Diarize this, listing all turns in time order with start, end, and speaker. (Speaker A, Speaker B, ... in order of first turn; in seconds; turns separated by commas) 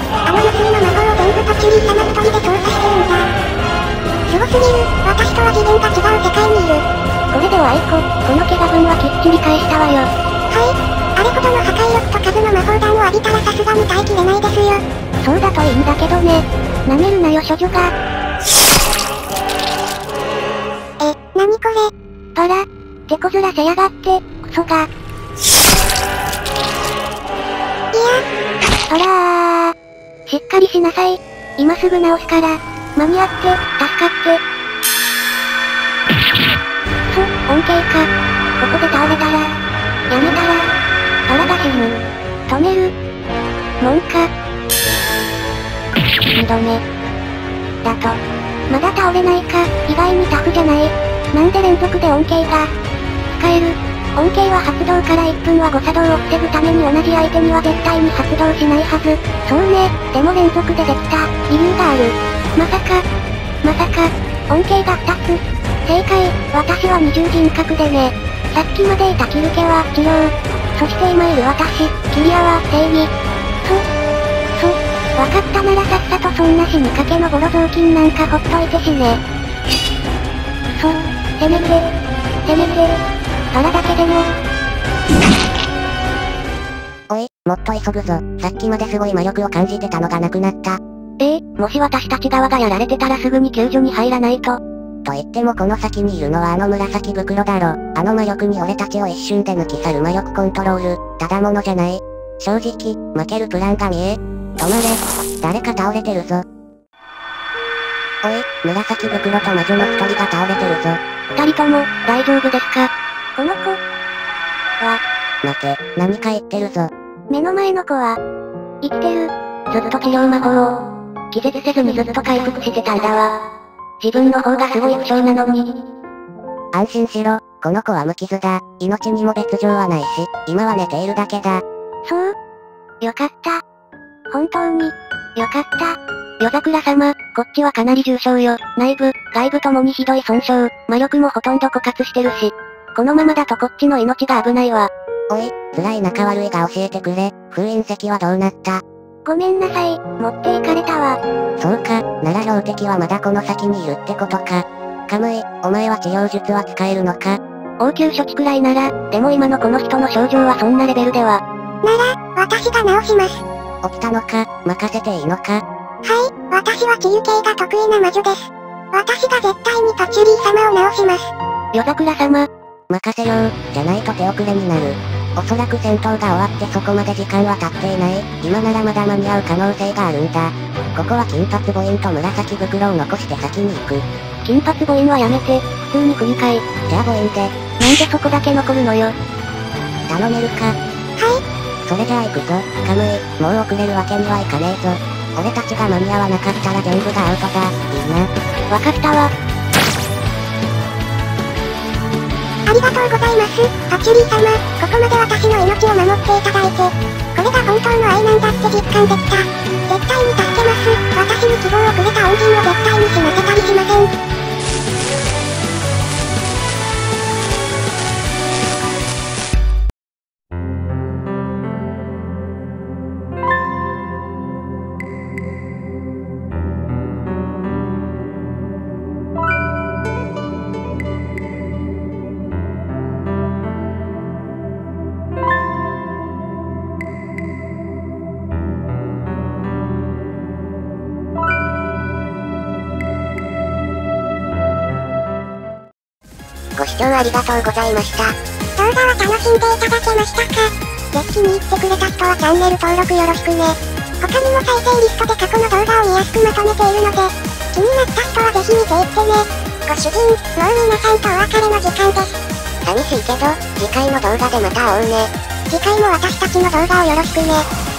Speaker A: 0.3-3.3, Speaker A: 4.3-6.8, Speaker B: 7.3-10.1, Speaker A: 10.5-14.8, Speaker B: 15.2-17.9, Speaker A: 21.0-21.9, Speaker B: 22.4-24.9, Speaker A: 27.9-28.2, Speaker B: 28.9-29.8, Speaker B: 30.3-34.4, Speaker B: 37.1-38.1, Speaker B: 38.6-39.5, Speaker B: 40.1-40.7, Speaker B: 41.3-42.9, Speaker B: 43.8-44.3, Speaker B: 46.3-46.8, Speaker B: 47.8-52.7, Speaker B: 53.3-63.0, Speaker B: 63.6-73.1, Speaker B: 74.6-79.2, Speaker B: 80.7-81.9, Speaker B: 82.5-83.0, Speaker B: 83.5-84.3, Speaker C: 87.1-90.8, Speaker B: 91.2-94.6, Speaker C: 95.1-106.4, Speaker C: 108.2-111.0, Speaker B: 111.3-113.8, Speaker C: 115.4-116.9, Speaker B: 117.3-118.2, Speaker B: 118.8-123.4, Speaker B: 124.0-125.8, Speaker C: 126.7-131.6, Speaker B: 132.1-132.3, Speaker B: 133.0-133.6, Speaker B: 134.3-144.9, Speaker C: 145.3-148.8, Speaker B: 149.2-151.2, Speaker C: 151.6-157.4, Speaker B: 157.8-161.4, Speaker A: 161.8-163.4, Speaker C: 163.8-165.6, Speaker A: 166.0-171.3, Speaker B: 171.7-172.5, Speaker C: 172.9-184.1, Speaker B: 184.4-186.6, Speaker C: 186.9-187.5, Speaker B: 187.8-189.2, Speaker C: 190.1-190.7, Speaker C: 191.9-198.3, Speaker B: 198.7-199.3, Speaker A: 202.7-214.1, Speaker C: 246.8-248.3, Speaker A: 248.8-262.3, Speaker C: 262.9-265.3, Speaker A: 265.7-267.7